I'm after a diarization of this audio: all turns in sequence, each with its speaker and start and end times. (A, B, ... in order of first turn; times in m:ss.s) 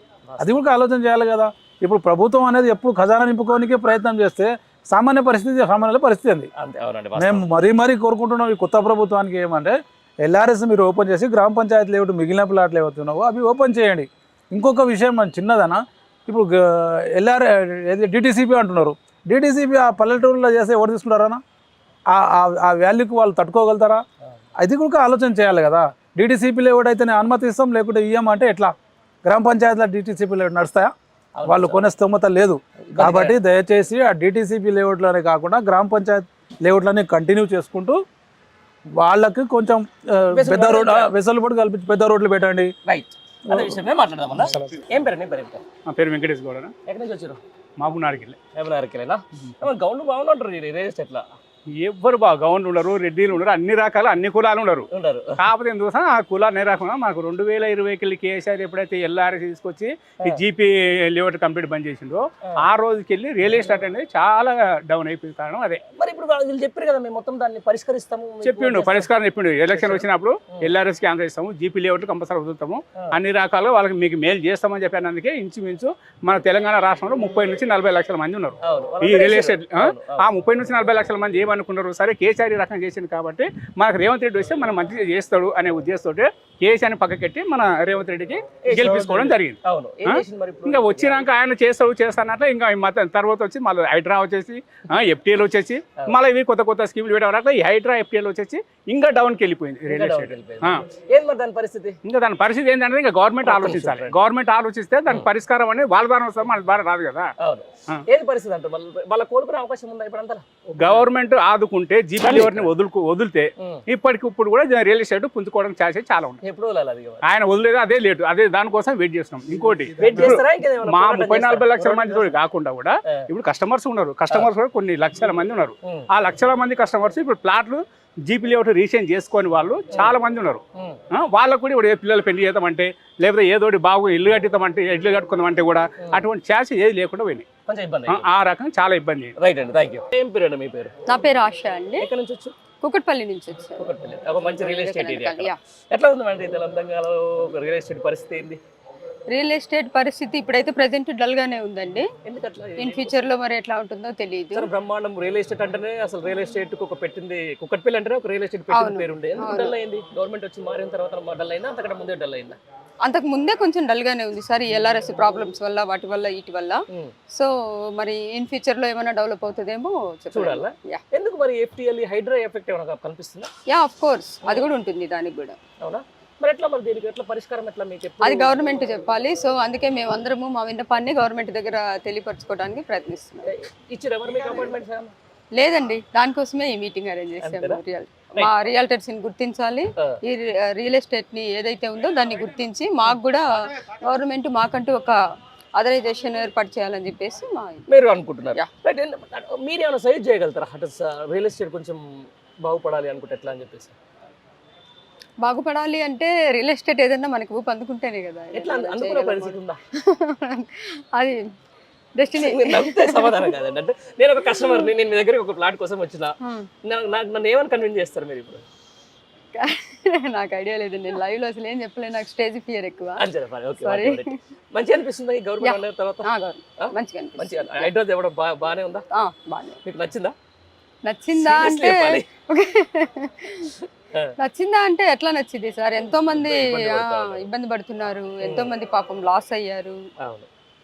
0:00.3-0:00.6 A
0:00.4-0:06.5 B
0:06.6-0:07.5 A
0:07.2-0:21.4 B
0:22.1-0:24.0 B
0:24.6-0:28.7 B
0:29.2-0:30.9 B
0:31.4-0:31.9 A
0:31.4-0:38.0 B
0:32.9-0:33.4 A
0:39.0-0:42.7 B
0:40.3-0:41.1 A
0:42.8-0:45.6 A
0:43.5-0:43.8 B
0:44.4-0:44.8 B
0:45.9-0:46.7 C
0:46.8-0:47.4 A
0:47.8-0:48.4 C
0:48.5-0:51.3 A
0:51.7-0:54.9 C
0:54.9-0:55.4 A
0:55.4-1:05.8 C
1:05.9-1:09.1 A
1:08.4-1:40.8 C
1:09.7-1:10.7 A
1:18.6-1:20.2 A
1:28.6-1:31.3 A
1:39.9-1:42.0 A
1:42.0-1:47.3 C
1:43.4-1:44.2 A
1:47.4-1:51.0 A
1:50.8-1:56.4 C
1:52.2-1:52.7 A
1:56.4-1:57.2 A
1:57.2-2:17.4 C
2:00.0-2:02.4 A
2:10.7-2:11.0 A
2:17.7-2:18.3 A
2:18.1-2:19.4 C
2:19.4-2:21.0 A
2:21.0-2:22.1 D
2:22.0-2:22.6 A
2:22.8-2:23.9 D
2:23.8-2:28.6 A
2:24.5-2:25.6 D
2:29.3-2:32.1 D
2:32.2-2:33.2 A
2:32.8-2:34.7 D
2:34.5-2:42.6 A
2:38.7-2:39.7 D
2:43.0-2:51.0 D
2:50.3-2:53.5 A
2:53.7-2:55.6 D
2:55.8-2:58.6 A
2:58.2-3:03.5 D
3:03.4-3:05.1 A
3:05.5-3:15.2 D
3:07.4-3:07.8 A
3:15.7-3:17.8 D
3:17.9-3:22.0 A
3:22.6-3:24.0 A
3:25.4-3:31.5 D
3:28.5-3:29.8 A
3:32.1-3:33.5 D
3:32.4-3:38.6 A
3:36.4-3:36.7 D
3:39.5-3:43.2 D
3:43.2-3:49.0 A
3:43.8-3:44.4 D
3:45.6-3:47.9 D
3:49.1-3:49.8 D
3:49.8-3:50.3 A
3:51.0-3:53.7 D
3:51.3-3:52.3 A
3:54.4-4:00.0 D
3:56.3-3:57.5 A
3:58.4-3:58.7 A
4:00.2-4:00.5 A